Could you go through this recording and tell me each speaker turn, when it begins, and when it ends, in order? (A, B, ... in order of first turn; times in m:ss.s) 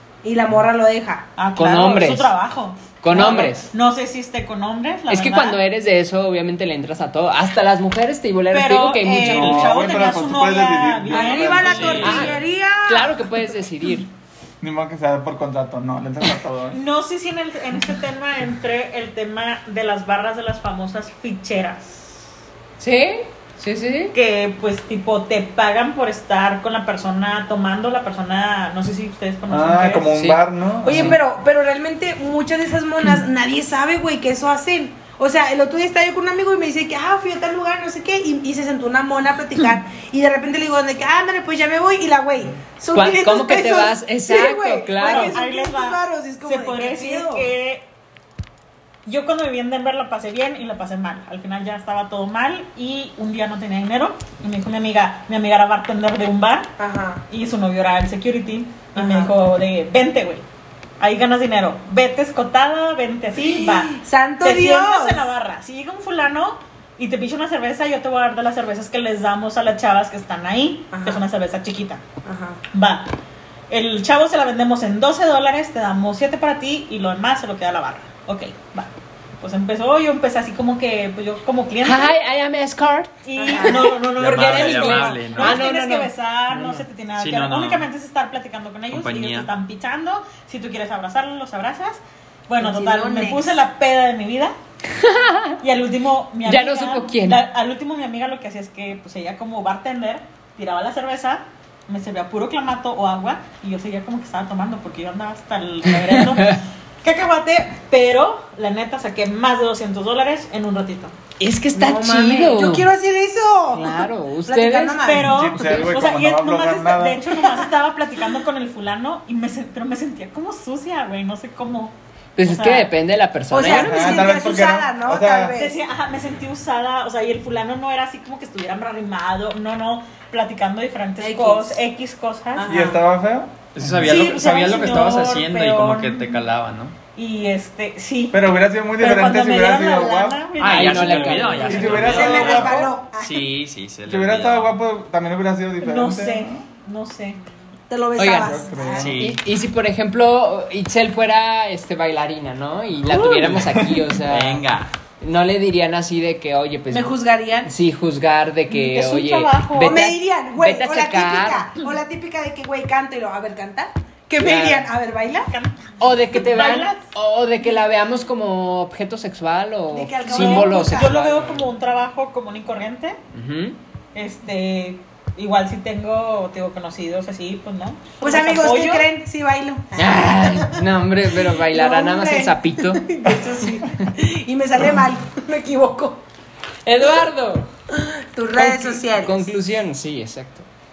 0:00.2-0:01.3 A
0:01.4-0:05.6 B
0:01.6-0:02.3 C
0:03.0-0:03.7 C
0:05.1-0:09.8 C
0:08.5-0:12.3 B
0:09.2-0:12.4 D
0:11.1-0:13.3 A
0:11.6-0:12.3 E
0:12.0-0:14.1 C
0:14.6-0:16.8 D
0:16.7-0:22.3 B
0:22.8-0:24.2 C
0:24.1-0:30.1 B
0:29.5-0:31.2 D
0:30.1-0:31.2 C
0:30.8-0:47.5 A
0:42.9-0:45.4 C
0:45.0-0:47.9 B
0:49.1-0:56.7 B
0:56.8-0:57.2 A
0:57.3-1:00.4 B
0:59.0-0:59.3 A
1:01.0-1:12.0 B
1:03.4-1:05.3 A
1:10.9-1:11.2 A
1:12.2-1:12.6 A
1:12.7-1:13.1 B
1:13.7-1:22.2 B
1:21.8-1:26.8 C
1:23.2-1:34.5 B
1:23.4-1:24.0 A
1:24.2-1:25.6 E
1:27.2-1:27.9 E
1:28.9-1:29.5 E
1:32.6-1:33.6 A
1:34.9-1:35.6 C
1:35.6-1:51.2 B
1:36.4-1:37.4 C
1:46.1-1:46.6 C
1:51.4-1:52.9 C
1:51.7-1:55.8 A
1:53.7-1:55.0 C
1:55.0-2:01.9 B
1:55.2-1:57.2 D
2:02.4-2:04.3 C
2:02.4-2:02.9 B
2:03.5-2:05.8 A
2:03.6-2:05.6 D
2:05.6-2:12.8 B
2:11.2-2:11.8 A
2:12.6-2:13.0 A
2:12.7-2:15.0 D
2:13.8-2:17.0 E
2:14.0-2:16.2 B
2:17.2-2:18.4 B
2:18.3-2:20.5 D
2:19.0-2:22.5 B
2:20.6-2:24.8 E
2:20.6-2:22.6 C
2:21.6-2:22.9 D
2:22.1-2:23.5 A
2:24.1-2:26.6 D
2:25.8-2:27.5 B
2:27.9-2:29.2 A
2:28.2-2:28.6 C
2:28.4-2:29.2 D
2:29.0-2:29.4 E
2:29.2-2:34.6 C
2:33.5-2:34.1 D
2:34.2-2:34.9 E
2:35.2-2:41.6 C
2:36.9-2:37.7 A
2:38.7-2:40.1 B
2:39.8-2:45.5 A
2:44.4-2:44.9 C
2:45.5-2:47.0 B
2:46.0-2:51.7 C
2:49.9-2:51.2 A
2:50.2-2:53.2 B
2:53.3-2:53.8 C
2:54.1-2:59.1 B
2:58.2-3:00.8 A
3:00.0-3:03.1 C
3:01.5-3:06.2 A
3:06.9-3:07.7 C
3:08.0-3:09.5 A
3:08.6-3:10.7 C